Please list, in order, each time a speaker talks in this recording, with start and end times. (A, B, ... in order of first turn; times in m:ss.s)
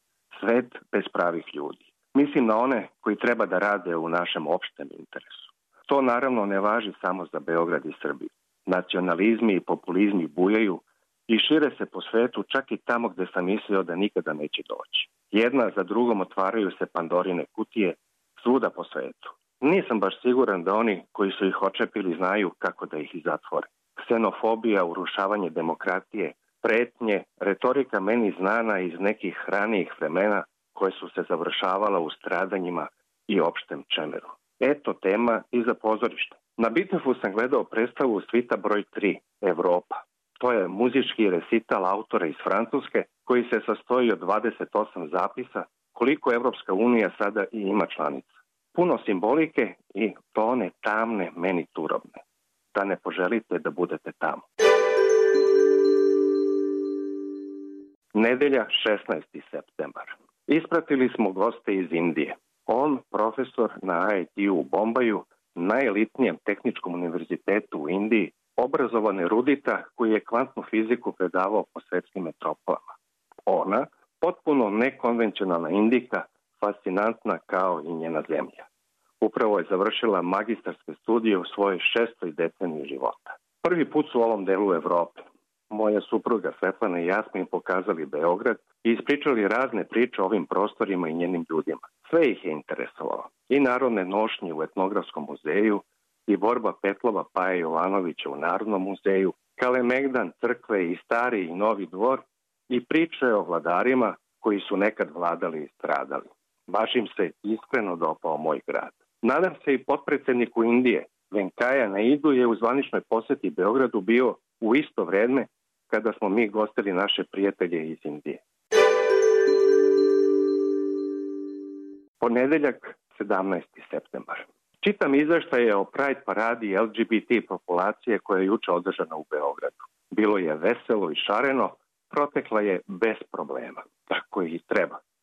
0:00.3-0:54.4 A
0:58.1-1:18.7 A
1:19.2-1:58.4 A
2:02.2-2:15.0 A